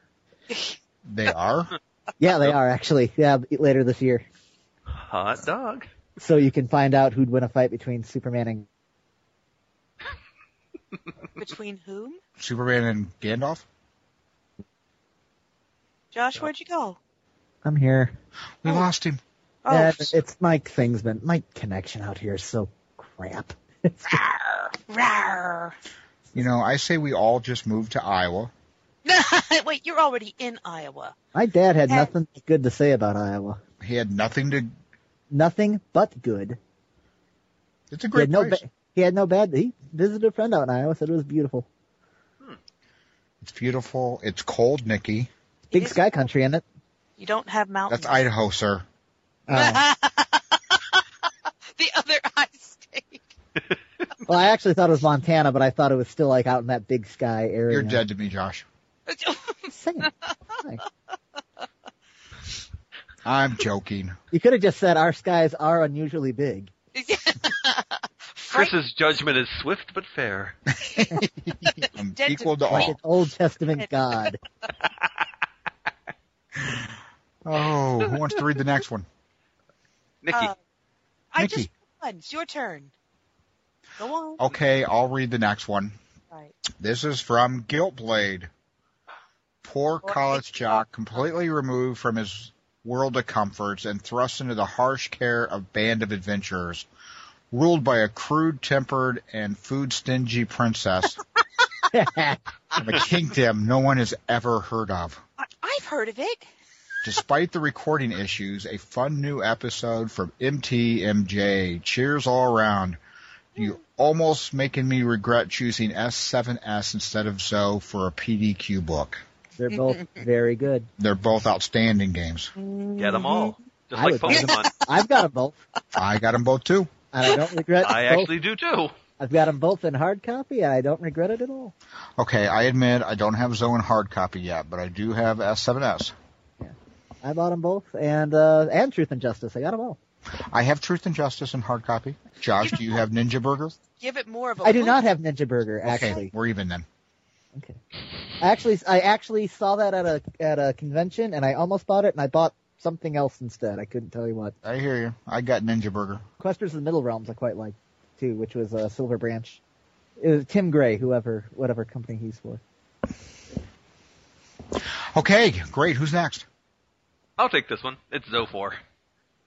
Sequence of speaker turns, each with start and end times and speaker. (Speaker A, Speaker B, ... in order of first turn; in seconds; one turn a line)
Speaker A: 0.5-0.8
Speaker B: 1.1-1.8
Speaker C: 2.2-4.2
Speaker D: 4.9-5.9
Speaker C: 6.2-8.7
Speaker A: 11.4-12.2
Speaker B: 12.4-13.7
Speaker A: 16.1-17.0
Speaker C: 17.6-18.1
Speaker B: 18.6-19.2
Speaker A: 19.6-20.2
Speaker C: 19.7-24.8
Speaker A: 24.9-25.8
Speaker B: 26.3-28.5
Speaker A: 29.1-31.1
Speaker C: 31.3-33.6
Speaker B: 33.8-34.7
Speaker C: 35.3-36.6
Speaker B: 37.9-38.6
Speaker C: 38.1-41.7
Speaker B: 43.4-45.3
Speaker C: 45.7-46.6
Speaker A: 45.7-46.3
Speaker A: 47.2-48.3
Speaker B: 47.9-48.9
Speaker C: 49.5-49.9
Speaker A: 49.5-51.0
Speaker A: 51.8-53.2
Speaker C: 54.3-58.0
Speaker B: 57.7-58.7
Speaker A: 59.1-60.3
Speaker C: 59.7-60.8
Speaker B: 63.2-64.2
Speaker C: 64.3-66.7
Speaker A: 66.9-68.7
Speaker D: 68.5-70.6
Speaker B: 70.9-73.0
Speaker A: 71.8-73.0
Speaker C: 72.7-74.4
Speaker B: 76.6-79.1
Speaker D: 78.1-78.3
Speaker D: 80.2-80.5
Speaker A: 80.3-80.6
Speaker A: 81.3-82.9
Speaker B: 81.4-81.7
Speaker A: 84.0-84.4
Speaker B: 84.4-86.0
Speaker B: 86.8-88.5
Speaker B: 89.6-96.9
Speaker A: 90.0-90.8
Speaker B: 97.5-101.2
Speaker C: 101.9-102.4
Speaker B: 102.8-105.2
Speaker A: 105.4-106.5
Speaker B: 107.0-113.0
Speaker B: 113.6-119.2
Speaker C: 119.6-120.9
Speaker A: 119.7-120.2
Speaker B: 121.0-122.5
Speaker A: 122.6-123.6
Speaker D: 123.0-124.7
Speaker C: 124.0-125.6
Speaker A: 124.3-124.9
Speaker B: 126.0-126.9
Speaker C: 127.1-128.3
Speaker D: 127.8-128.9
Speaker C: 129.2-131.7
Speaker B: 132.2-136.1
Speaker C: 136.6-140.0
Speaker B: 140.5-143.8
Speaker A: 142.6-143.0
Speaker A: 143.8-145.0
Speaker C: 144.6-146.3
Speaker B: 145.9-146.8
Speaker C: 147.5-147.8
Speaker C: 148.4-154.6
Speaker B: 154.6-156.2
Speaker C: 156.4-159.6
Speaker C: 160.2-162.6
Speaker B: 165.1-166.5
Speaker D: 167.4-168.8